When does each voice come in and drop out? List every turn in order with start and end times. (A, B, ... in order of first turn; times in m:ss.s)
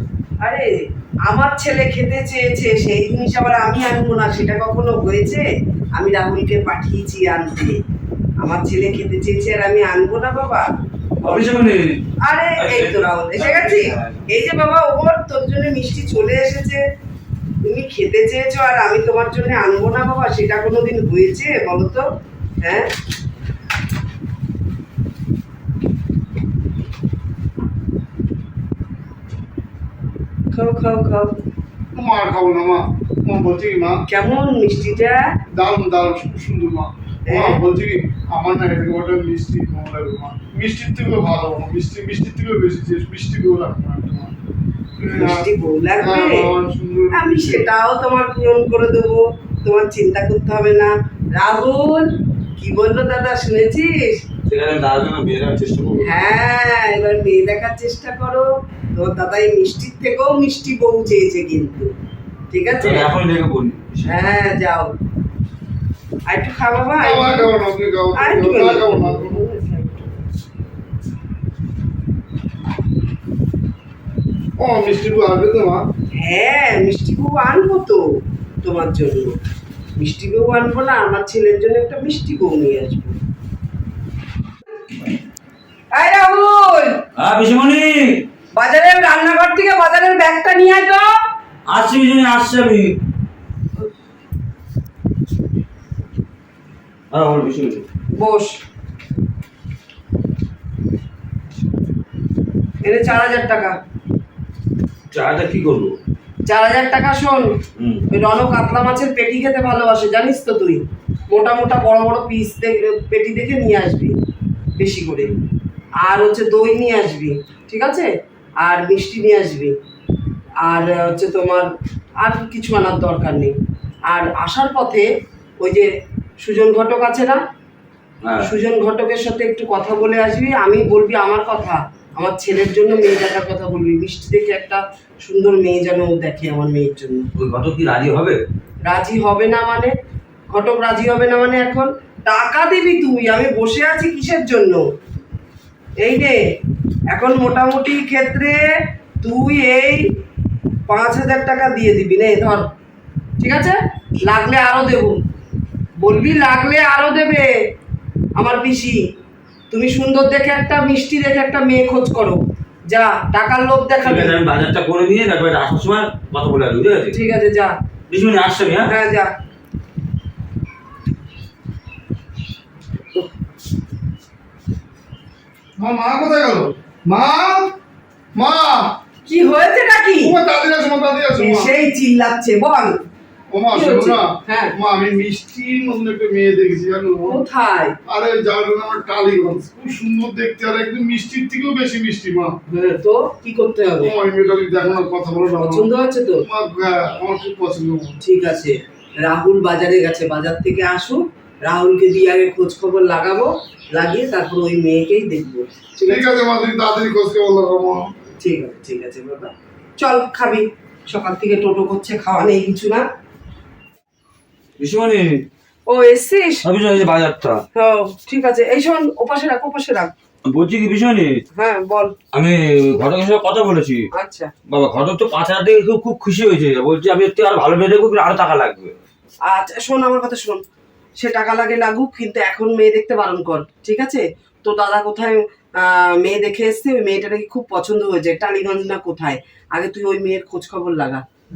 0:00.4-0:00.7 A
0:01.3-0:07.8 A
0:08.4-0:10.7 A
0:11.2-0:11.6 A
0:11.2-0:12.0 B
0:12.2-0:16.8 A
0:12.6-0:14.2 B
0:17.7-0:22.0 A
0:22.6-0:22.9 A
0:30.5-0:31.4 A
0:32.0-0:34.0 C
0:34.1-0:35.2 A
0:35.6-0:44.3 C
0:37.3-0:37.6 A
0:45.0-0:45.5 C
0:45.2-0:46.5 A
0:46.0-0:47.7 C
0:47.1-0:54.2 A
0:54.5-0:56.2 B
0:56.0-1:01.9 A
1:02.5-1:03.1 A
1:02.8-1:04.1 B
1:04.0-1:04.9 A
1:06.3-1:07.5 A
1:07.0-1:09.4 C
1:08.2-1:10.1 A
1:14.6-1:15.8 C
1:16.1-1:18.0 A
1:18.6-1:19.4 A
1:20.0-1:23.2 A
1:25.9-1:27.0 A
1:27.2-1:28.2 B
1:28.6-1:31.1 A
1:31.7-1:32.9 B
1:37.1-1:37.8 B
1:38.2-1:38.6 A
1:42.8-1:43.8 A
1:45.1-1:45.9 B
1:46.5-1:47.6 A
1:47.8-1:48.1 B
1:48.1-1:54.2 A
1:54.8-1:55.3 A
1:56.0-1:58.1 A
1:58.6-1:59.7 A
2:00.6-2:01.7 A
2:02.2-2:03.6 A
2:04.1-2:05.1 A
2:05.6-2:05.9 A
2:06.4-2:07.4 A
2:08.2-2:08.6 B
2:08.4-2:17.3 A
2:17.4-2:18.4 B
2:18.9-2:19.9 A
2:20.5-2:24.8 A
2:26.0-2:26.4 A
2:27.1-2:28.6 A
2:29.2-2:30.1 A
2:30.9-2:32.7 A
2:33.4-2:35.2 A
2:36.0-2:37.5 A
2:38.4-2:39.0 A
2:39.7-2:44.4 A
2:44.0-2:47.2 B
2:47.1-2:47.7 A
2:48.1-2:48.9 B
2:48.9-2:49.3 A
2:55.8-2:57.7 C
2:58.4-2:59.0 C
2:59.2-3:00.4 A
3:00.2-3:01.7 C
3:01.4-3:02.9 A
3:03.5-3:07.4 C
3:03.7-3:04.7 A
3:07.2-3:08.0 A
3:08.1-3:12.6 C
3:12.7-3:14.1 A
3:14.0-3:15.9 C
3:15.6-3:16.4 A
3:16.5-3:18.2 C
3:18.2-3:26.3 A
3:26.1-3:28.1 C
3:28.4-3:33.0 A
3:34.8-3:35.4 B
3:35.9-3:36.6 A
3:36.6-3:37.6 B
3:37.8-3:40.1 A
3:40.5-3:41.4 B
3:41.6-3:42.2 A
3:42.3-3:44.1 B
3:44.2-3:44.5 A
3:44.7-3:49.0 B
3:49.5-3:50.6 A
3:51.2-4:01.2 A